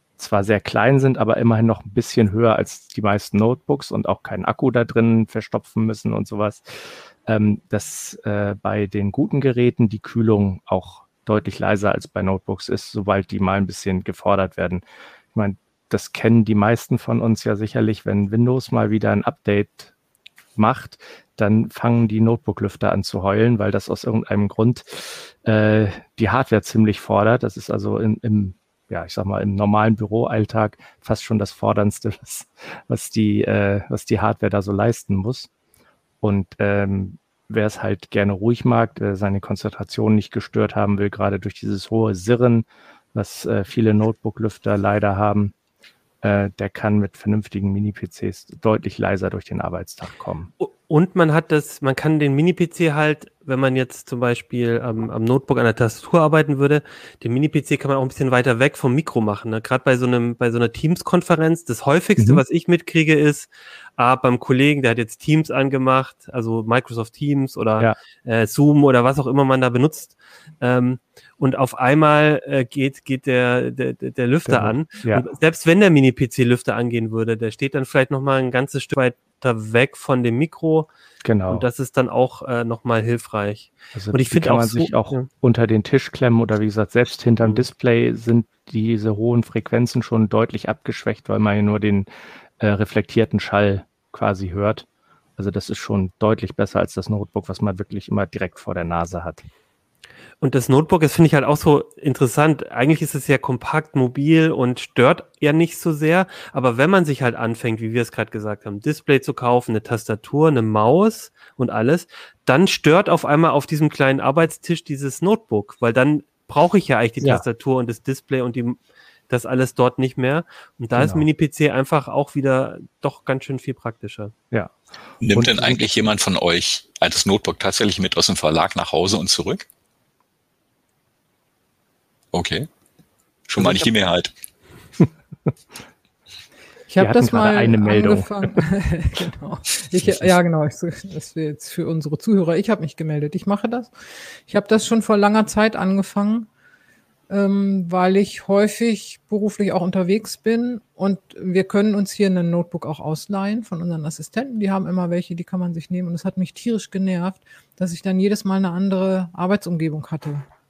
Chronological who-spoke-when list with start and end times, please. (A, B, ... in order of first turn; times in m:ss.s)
0:00.2-0:19.9 A
0:20.6-0:35.5 A
0:36.2-0:45.5 A
0:46.2-0:50.5 A
0:50.6-1:20.9 B
1:02.2-1:02.4 A
1:14.5-1:15.3 A
1:21.2-1:21.7 A
1:21.5-1:25.3 B
1:23.9-1:34.9 A
1:35.4-1:39.4 A
1:40.4-1:58.8 B
1:57.2-1:57.4 A
1:59.3-2:04.3 B
2:00.9-2:01.3 A
2:04.5-2:04.8 A
2:05.2-2:09.7 C
2:05.3-2:06.1 A
2:12.3-2:12.7 C
2:13.5-2:14.3 C
2:13.6-2:13.9 A
2:16.9-2:26.5 D
2:17.0-2:18.6 A
2:20.1-2:20.3 A
2:27.3-2:40.5 D